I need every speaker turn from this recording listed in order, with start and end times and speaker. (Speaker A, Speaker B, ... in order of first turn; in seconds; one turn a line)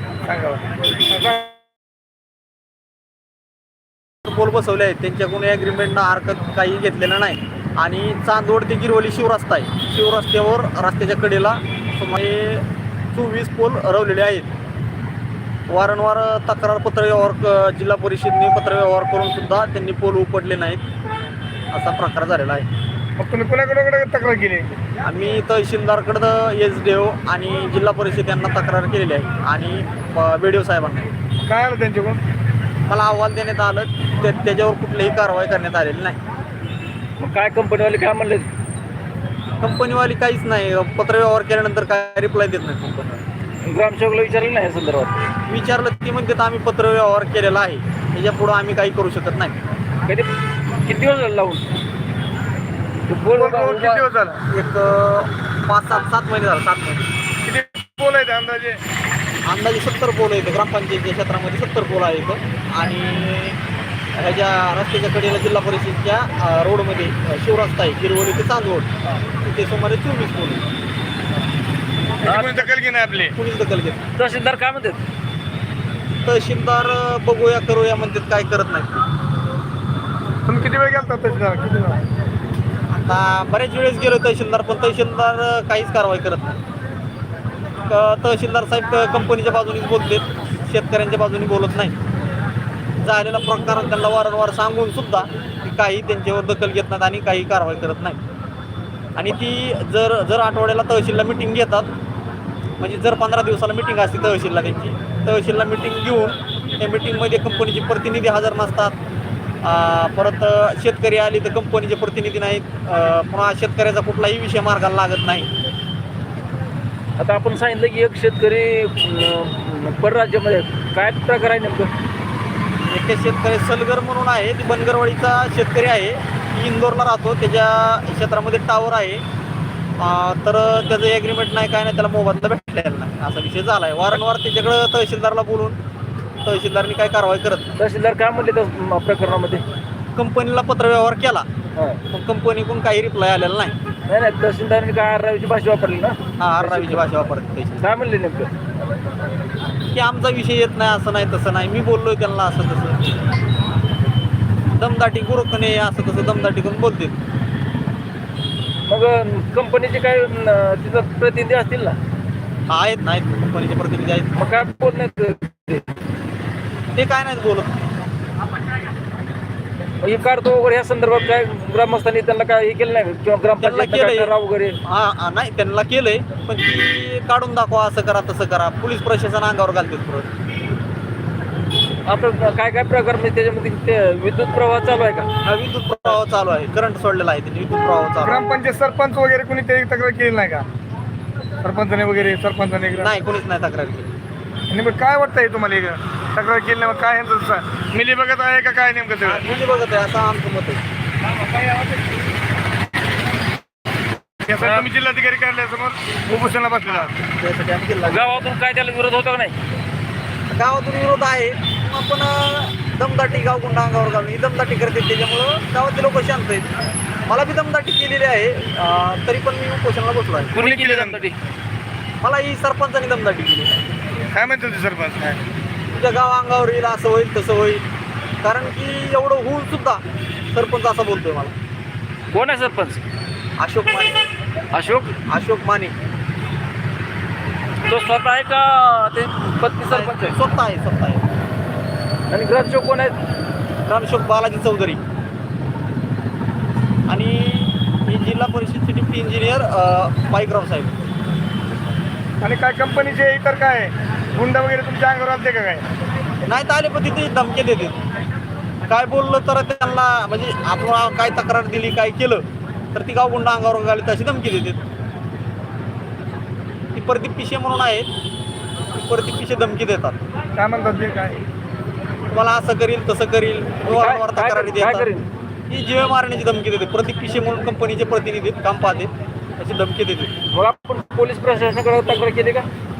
Speaker A: 0.2-1.5
Speaker B: 4.2-14.5
Speaker B: 15.7-20.8
Speaker B: 21.7-22.7
Speaker A: 23.2-24.7
Speaker B: 25.0-31.1
Speaker A: 31.4-32.2
Speaker B: 32.9-36.2
Speaker C: 37.2-38.5
Speaker B: 39.6-43.2
Speaker C: 43.6-45.2
Speaker B: 45.5-49.5
Speaker C: 50.8-51.6
Speaker C: 53.1-54.1
Speaker A: 53.3-54.4
Speaker B: 54.5-57.1
Speaker A: 57.4-58.8
Speaker B: 59.5-63.6
Speaker B: 64.1-70.7
Speaker A: 72.2-73.3
Speaker C: 72.2-72.7
Speaker B: 73.3-74.0
Speaker C: 74.2-75.0
Speaker B: 76.2-79.0
Speaker A: 80.5-82.0
Speaker B: 82.9-86.5
Speaker B: 87.9-92.0
Speaker B: 93.0-98.2
Speaker B: 99.2-101.9
Speaker B: 102.8-109.0
Speaker B: 109.6-115.5
Speaker C: 117.2-121.9
Speaker B: 122.8-129.2
Speaker B: 130.0-135.8
Speaker B: 136.4-137.8
Speaker C: 137.8-139.6
Speaker B: 140.2-141.4
Speaker B: 142.1-143.7
Speaker C: 144.1-147.1
Speaker B: 146.4-147.8
Speaker C: 147.8-148.5
Speaker B: 149.9-153.1
Speaker B: 154.8-157.1
Speaker C: 158.9-162.0
Speaker B: 162.7-164.4
Speaker C: 164.3-165.9
Speaker B: 166.9-167.7
Speaker C: 170.0-174.8
Speaker B: 173.6-174.3
Speaker B: 174.8-180.3
Speaker C: 182.1-185.3
Speaker B: 185.4-188.4
Speaker A: 188.2-190.6
Speaker A: 191.6-193.1
Speaker B: 193.0-194.2
Speaker A: 194.7-199.4
Speaker B: 199.2-200.8
Speaker A: 204.4-207.1
Speaker C: 204.6-204.9
Speaker B: 207.3-208.3
Speaker C: 208.0-209.5
Speaker B: 210.5-216.7
Speaker B: 217.3-220.6
Speaker C: 220.5-221.3
Speaker A: 220.6-221.2
Speaker B: 222.2-223.7
Speaker A: 224.3-225.4
Speaker B: 225.9-227.8
Speaker B: 228.4-230.0
Speaker B: 230.5-231.5
Speaker C: 232.3-233.0
Speaker B: 233.6-234.2
Speaker C: 234.7-235.2
Speaker B: 235.3-235.9
Speaker C: 237.8-240.3
Speaker B: 239.9-241.2
Speaker C: 242.3-243.1
Speaker B: 243.9-245.0
Speaker B: 247.1-251.0
Speaker A: 252.4-255.8
Speaker B: 256.4-258.0
Speaker B: 258.8-264.8
Speaker B: 266.9-268.1
Speaker B: 268.9-270.2
Speaker A: 270.6-271.4
Speaker B: 272.3-275.1
Speaker C: 273.9-275.2
Speaker B: 275.7-280.3
Speaker C: 280.5-282.7